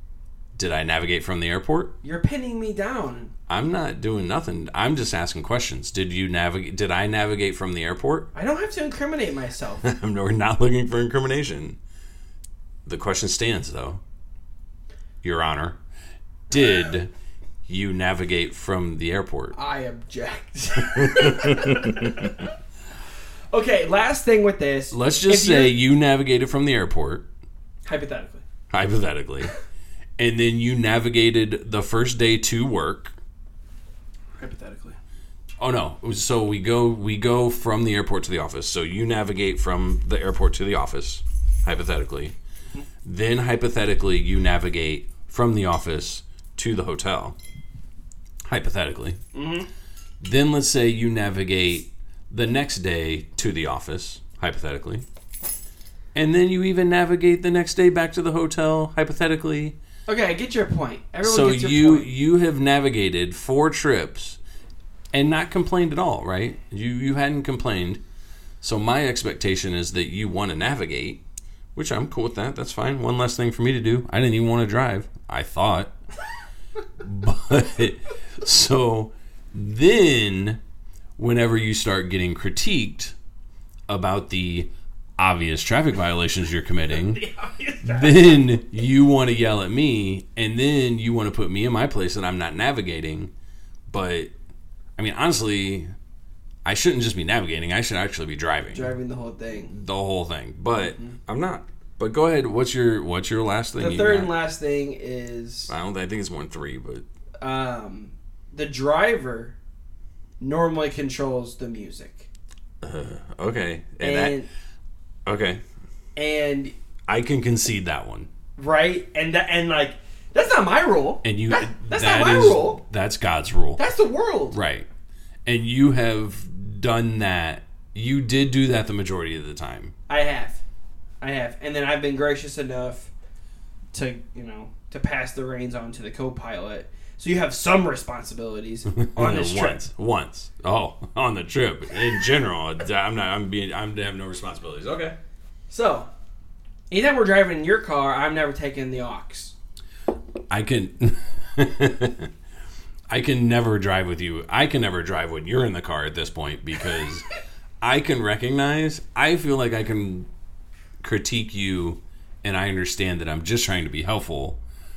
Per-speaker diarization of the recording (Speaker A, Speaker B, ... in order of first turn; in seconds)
Speaker A: 0.6-1.9, 3.5-8.3, 9.8-11.8, 12.9-14.0, 15.2-15.8, 16.5-17.1, 17.7-19.5, 20.8-22.3, 24.9-27.2, 28.7-29.5, 30.2-33.1, 35.6-42.3, 43.0-47.4, 48.5-49.2, 50.2-55.0, 56.1-59.8, 61.2-64.4, 65.1-68.0, 68.6-71.2, 71.7-75.9, 77.0-80.6, 81.2-83.1, 83.9-87.2, 87.8-93.3, 93.9-94.3, 95.0-95.9, 96.6-98.9, 99.7-104.3, 105.7-107.0, 112.8-114.3, 115.2-115.6, 117.1-118.3, 121.2-123.8, 124.5-124.9, 125.5-129.9, 138.9-145.2, 150.5-152.3, 153.1-157.2, 157.8-160.3, 161.0-164.6
Speaker B: 2.0-3.3, 8.3-9.8, 19.5-22.5, 23.5-25.7, 27.9-28.4, 34.4-35.0, 49.3-49.7, 60.1-62.1, 86.9-88.5, 98.7-99.7, 100.8-101.2, 103.8-105.7, 107.4-109.5, 110.4-112.3, 114.0-114.5, 116.2-116.7, 118.6-122.8, 123.8-124.6, 130.1-130.6, 131.2-133.1, 133.9-139.8, 145.7-146.1, 146.9-149.5